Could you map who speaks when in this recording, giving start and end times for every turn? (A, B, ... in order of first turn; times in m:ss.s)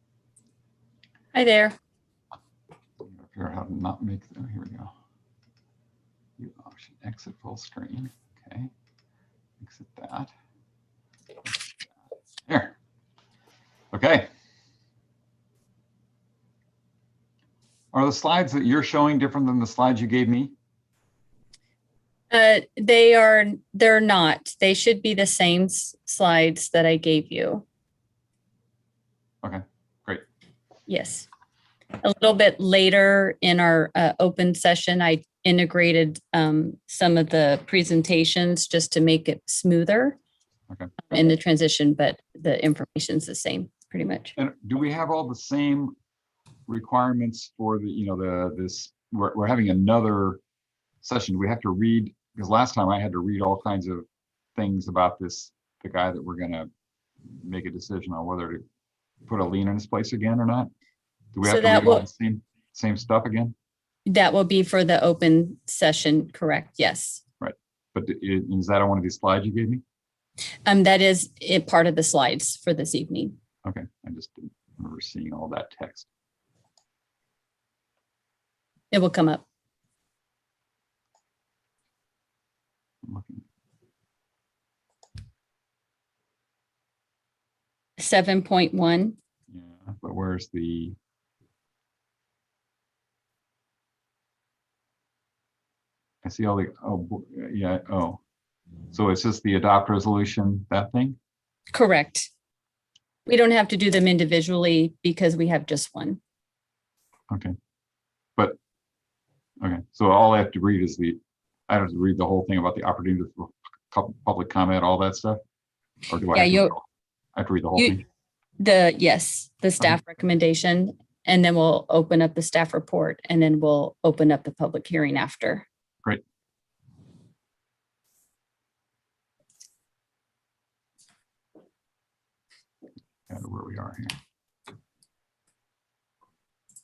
0:01.3-0:01.8 A
0:03.0-0:04.9 B
0:06.4-0:08.7 B
0:09.6-0:10.3 B
0:12.5-0:12.7 B
0:13.9-0:14.3 B
0:17.9-0:20.5 B
0:22.3-0:27.6 A
0:29.4-0:30.2 B
0:30.9-0:31.3 A
0:32.0-0:40.2 A
0:41.1-0:44.3 A
0:44.4-0:45.9 B
0:46.7-0:50.4 B
0:51.0-0:56.7 B
0:57.4-0:58.6 B
0:59.3-1:00.7 B
1:01.3-1:03.5 B
1:01.4-1:02.0 A
1:04.1-1:07.2 A
1:07.4-1:09.8 B
1:10.6-1:13.3 A
1:13.6-1:16.1 B
1:18.9-1:19.4 A
1:23.0-1:23.4 B
1:28.0-1:29.2 A
1:29.5-1:31.0 B
1:36.2-1:38.2 B
1:38.9-1:41.2 B
1:41.7-1:42.3 A
1:43.2-1:46.2 A
1:49.6-1:55.4 B
1:56.1-1:56.8 B
1:56.3-1:56.7 A
1:57.3-1:58.0 B
1:58.6-2:05.6 A
2:13.3-2:14.2 B